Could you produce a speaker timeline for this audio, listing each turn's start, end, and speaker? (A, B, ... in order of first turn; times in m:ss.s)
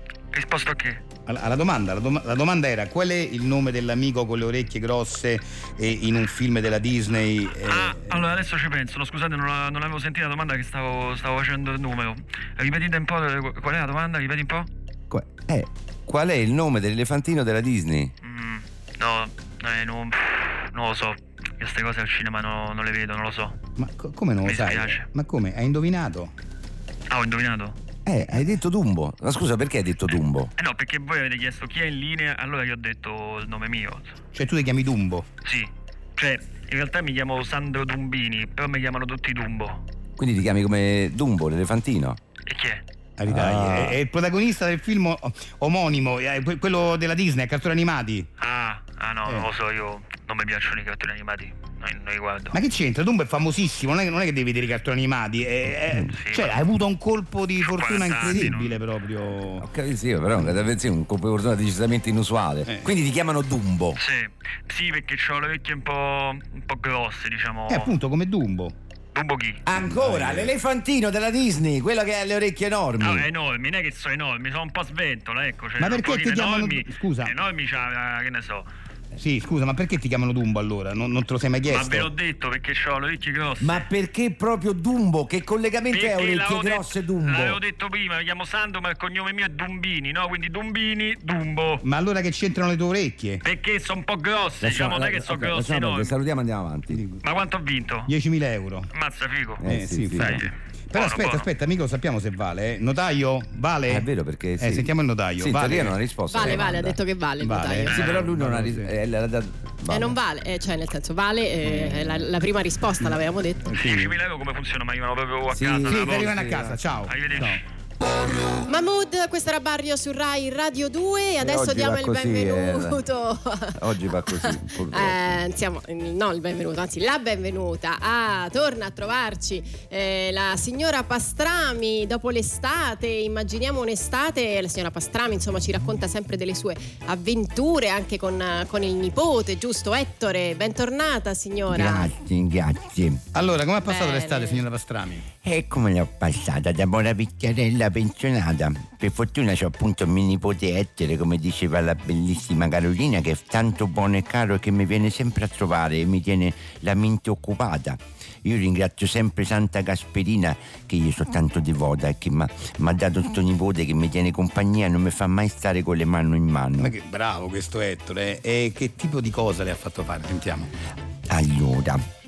0:00.3-0:01.0 A
0:01.3-0:08.2 B
0:07.7-0:14.7 A
0:15.1-0:18.1 C
0:18.2-0:23.6 A
0:23.8-0:26.3 B
0:24.4-0:25.1 A
0:27.1-0:27.8 A
0:28.1-0:30.5 C
0:30.6-0:34.1 A
0:34.3-0:35.3 B
0:35.4-0:39.8 A
0:40.2-0:42.2 C
0:42.5-0:42.8 A
0:43.2-0:48.3 B
0:43.3-0:44.0 C
0:48.4-0:52.6 A
0:52.5-0:59.7 B
0:56.1-0:56.6 A
0:57.6-0:58.8 A
0:59.6-1:04.0 C
1:02.7-1:03.0 B
1:04.0-1:07.9 A
1:07.7-1:08.7 B
1:09.2-1:09.6 A
1:09.7-1:13.3 C
1:09.7-1:10.6 B
1:13.0-1:18.7 A
1:15.8-1:17.3 B
1:19.2-1:22.1 B
1:21.7-1:23.9 A
1:23.6-1:27.6 C
1:25.9-1:31.8 A
1:31.8-1:33.4 B
1:33.4-1:36.1 A
1:34.6-1:37.0 C
1:36.9-1:37.2 B
1:37.2-1:38.1 A
1:38.1-1:38.9 B
1:38.9-1:39.6 A
1:39.6-1:40.5 C
1:39.6-1:44.1 B
1:40.2-1:41.5 A
1:43.9-1:47.0 C
1:44.6-1:46.8 B
1:46.3-1:48.1 D
1:47.4-1:48.9 B
1:47.9-1:50.2 C
1:49.9-1:53.7 D
1:53.7-1:54.2 B
1:53.8-1:57.6 A
1:55.5-1:56.6 C
1:55.8-1:57.6 B
1:58.7-2:22.1 D
2:01.4-2:03.0 C
2:03.8-2:05.4 C
2:21.7-2:23.2 E
2:23.3-2:25.3 B
2:23.8-2:24.6 D
2:25.4-2:46.9 E
2:46.8-2:50.7 B
2:51.3-2:52.0 E